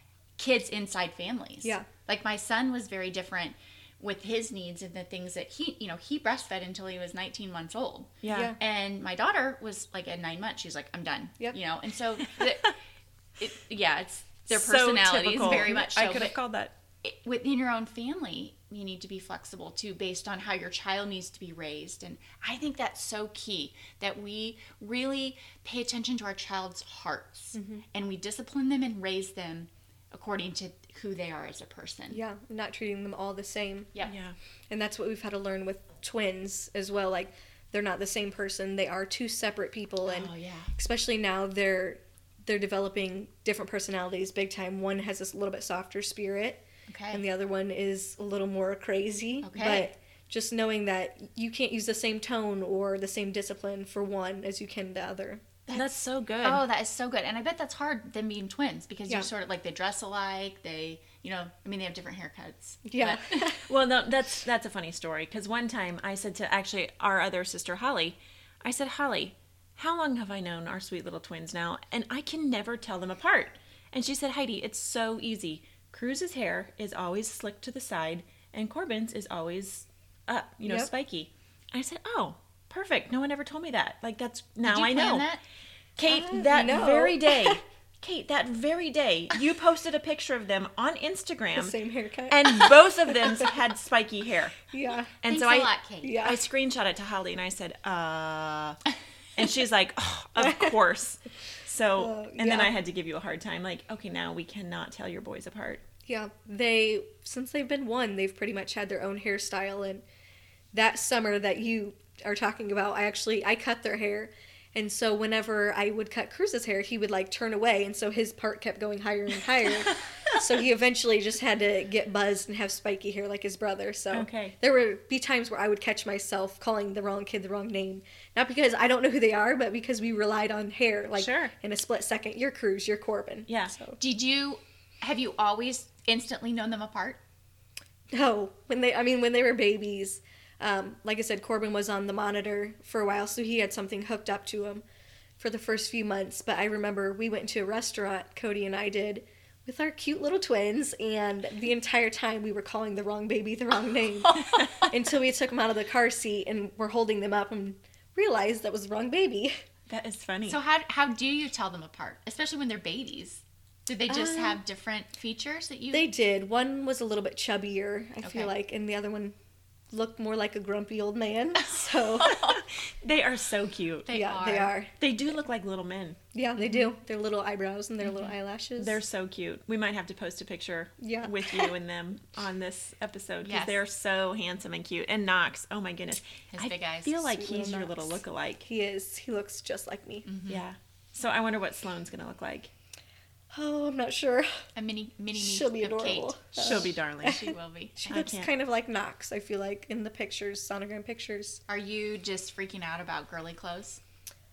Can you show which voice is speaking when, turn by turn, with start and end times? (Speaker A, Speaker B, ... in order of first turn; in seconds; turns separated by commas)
Speaker A: 0.4-12.8, Speaker B: 8.2-8.5, Speaker C: 8.3-8.6, Speaker A: 13.4-16.3, Speaker B: 14.5-16.7, Speaker A: 17.0-32.2, Speaker C: 27.6-27.8, Speaker C: 32.1-33.9, Speaker B: 34.0-34.4, Speaker C: 34.7-55.5, Speaker A: 40.0-40.7, Speaker A: 46.9-47.2, Speaker A: 49.4-49.9, Speaker B: 55.7-56.6, Speaker A: 56.4-63.6, Speaker C: 62.9-63.6, Speaker B: 63.6-85.3, Speaker C: 80.6-80.9, Speaker A: 84.6-85.4, Speaker B: 86.0-91.8, Speaker C: 86.1-87.6, Speaker C: 91.6-93.5, Speaker B: 92.3-94.7, Speaker C: 94.7-95.3, Speaker B: 95.2-98.8, Speaker A: 95.3-96.3, Speaker C: 96.0-96.4, Speaker B: 99.4-105.8, Speaker C: 100.4-100.7, Speaker C: 102.0-102.7, Speaker C: 106.1-110.0, Speaker C: 110.7-134.0, Speaker B: 124.1-124.6, Speaker B: 131.2-131.5, Speaker B: 133.5-133.8, Speaker A: 134.0-137.2, Speaker C: 138.1-144.8, Speaker C: 145.4-159.6, Speaker A: 154.3-154.9, Speaker B: 159.9-160.6, Speaker A: 160.5-166.1, Speaker C: 164.1-164.6, Speaker C: 165.9-169.3, Speaker A: 168.2-168.5, Speaker C: 169.9-172.3, Speaker A: 171.6-172.6, Speaker B: 172.3-174.2, Speaker A: 174.1-174.8, Speaker C: 174.1-174.9, Speaker B: 175.0-176.2, Speaker C: 176.3-179.0, Speaker A: 178.0-178.3, Speaker B: 178.8-188.7, Speaker C: 181.0-181.7, Speaker A: 183.4-183.8, Speaker A: 186.5-187.2, Speaker C: 187.2-190.3, Speaker A: 190.2-190.7, Speaker B: 190.5-192.7, Speaker C: 193.5-194.7, Speaker A: 194.8-198.1, Speaker C: 195.3-201.6, Speaker B: 196.6-197.5, Speaker B: 198.1-198.5, Speaker A: 201.7-204.0